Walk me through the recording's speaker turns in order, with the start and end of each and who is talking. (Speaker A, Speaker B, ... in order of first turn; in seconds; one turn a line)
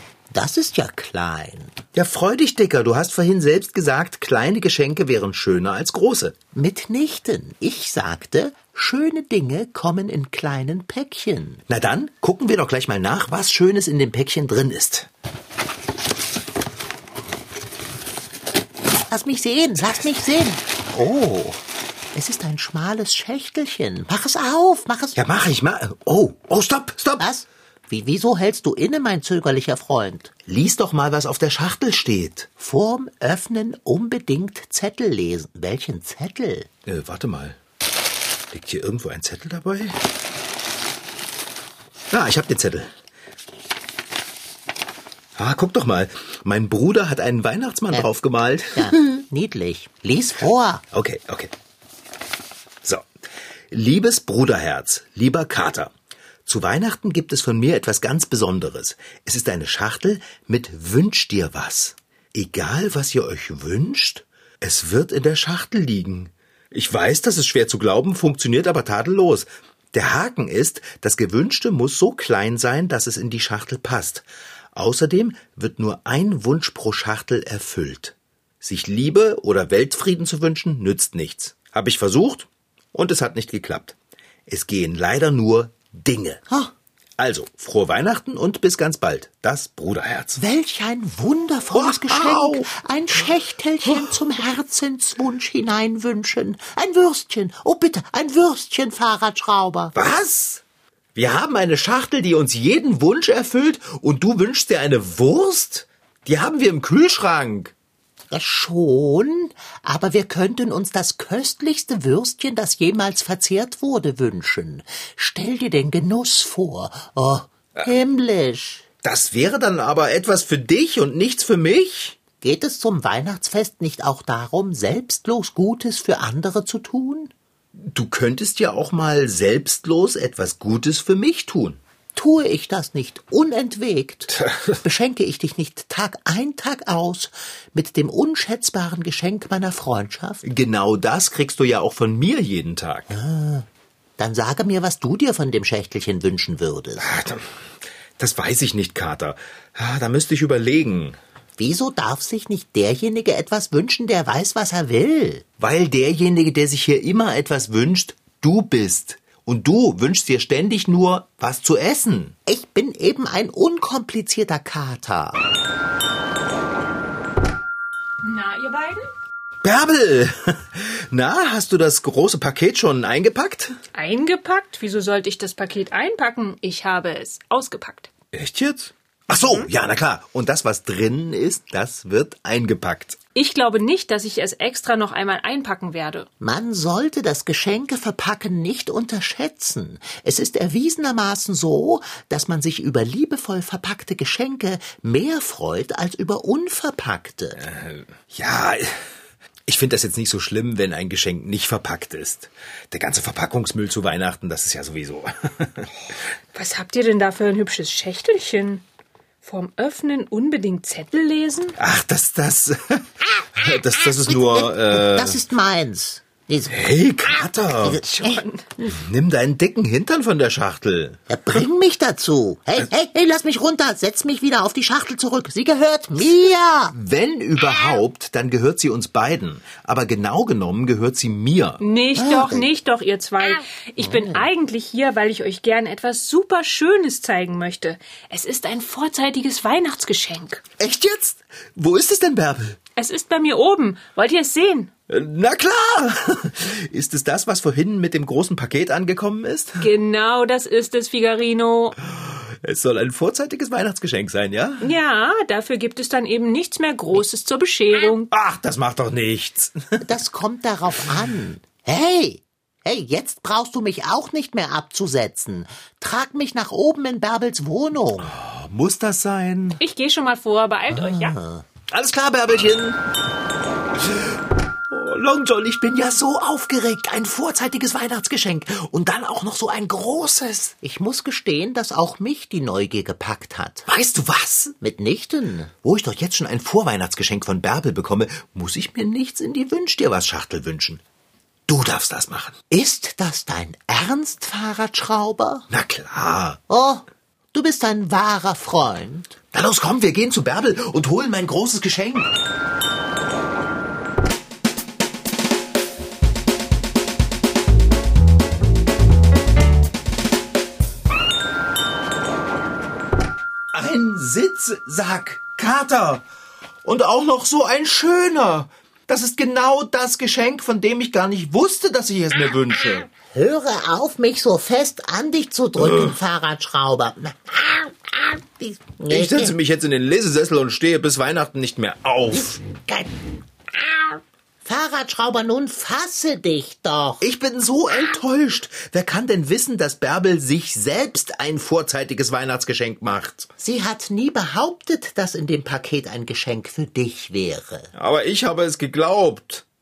Speaker A: 0.3-1.8
Speaker B: 1.9-6.4
Speaker A: 6.5-11.6
Speaker B: 11.7-15.1
Speaker A: 19.1-21.6
Speaker A: 22.1-25.2
Speaker B: 25.1-27.2
Speaker A: 27.2-30.3
Speaker B: 30.5-32.5
Speaker A: 32.6-36.7
Speaker B: 36.9-37.6
Speaker B: 38.5-40.0
Speaker B: 42.1-42.9
Speaker B: 45.4-48.9
Speaker A: 48.8-50.8
Speaker B: 50.9-51.5
Speaker B: 53.7-55.9
Speaker B: 56.5-84.0
Speaker B: 84.5-86.4
Speaker B: 87.2-90.4
Speaker A: 90.3-99.9
Speaker B: 91.7-92.7
Speaker B: 93.8-94.2
Speaker B: 100.0-100.6
Speaker B: 101.1-107.7
Speaker A: 108.3-118.8
Speaker B: 119.0-122.2
Speaker A: 122.4-127.3
Speaker B: 127.8-131.8
Speaker A: 132.1-140.4
Speaker B: 134.3-134.8
Speaker B: 140.4-143.1
Speaker A: 143.1-143.7
Speaker A: 144.2-147.1
Speaker B: 147.0-147.4
Speaker B: 148.2-151.2
Speaker A: 151.6-155.4
Speaker B: 155.6-162.3
Speaker A: 162.4-165.4
Speaker C: 168.2-169.1
Speaker B: 169.6-173.7
Speaker C: 173.9-178.1
Speaker B: 178.3-183.2
Speaker C: 179.3-179.7
Speaker C: 183.3-186.3
Speaker A: 186.4-197.6
Speaker B: 197.6-199.0
Speaker B: 199.7-206.1
Speaker C: 206.5-208.8
Speaker C: 209.4-211.8
Speaker B: 211.8-215.4
Speaker A: 214.3-216.9
Speaker B: 216.7-221.2
Speaker A: 217.8-218.4
Speaker C: 218.2-218.8
Speaker A: 221.3-227.0
Speaker B: 226.9-231.8
Speaker C: 231.8-240.6
Speaker A: 232.2-232.7
Speaker A: 234.0-234.4
Speaker B: 240.8-242.8
Speaker C: 242.9-244.9
Speaker B: 245.1-249.9
Speaker C: 249.8-252.0
Speaker B: 252.1-254.9
Speaker C: 254.8-258.3
Speaker B: 258.3-260.0
Speaker A: 260.0-268.3
Speaker B: 268.3-269.8
Speaker C: 269.8-271.4
Speaker A: 270.9-271.6
Speaker B: 271.9-273.0
Speaker B: 274.0-274.4
Speaker B: 274.9-280.8
Speaker A: 280.8-283.9
Speaker B: 283.9-284.8
Speaker A: 284.8-285.7
Speaker B: 285.8-291.0
Speaker B: 291.7-292.6
Speaker A: 292.7-295.7
Speaker B: 295.7-296.6
Speaker A: 296.7-299.4
Speaker B: 299.5-302.3
Speaker B: 313.7-316.2
Speaker B: 316.8-323.1
Speaker A: 323.2-329.6
Speaker B: 325.8-326.1
Speaker B: 329.1-332.6
Speaker A: 332.3-333.1
Speaker A: 334.6-337.2
Speaker B: 337.2-343.5
Speaker A: 343.6-347.9
Speaker B: 347.9-349.6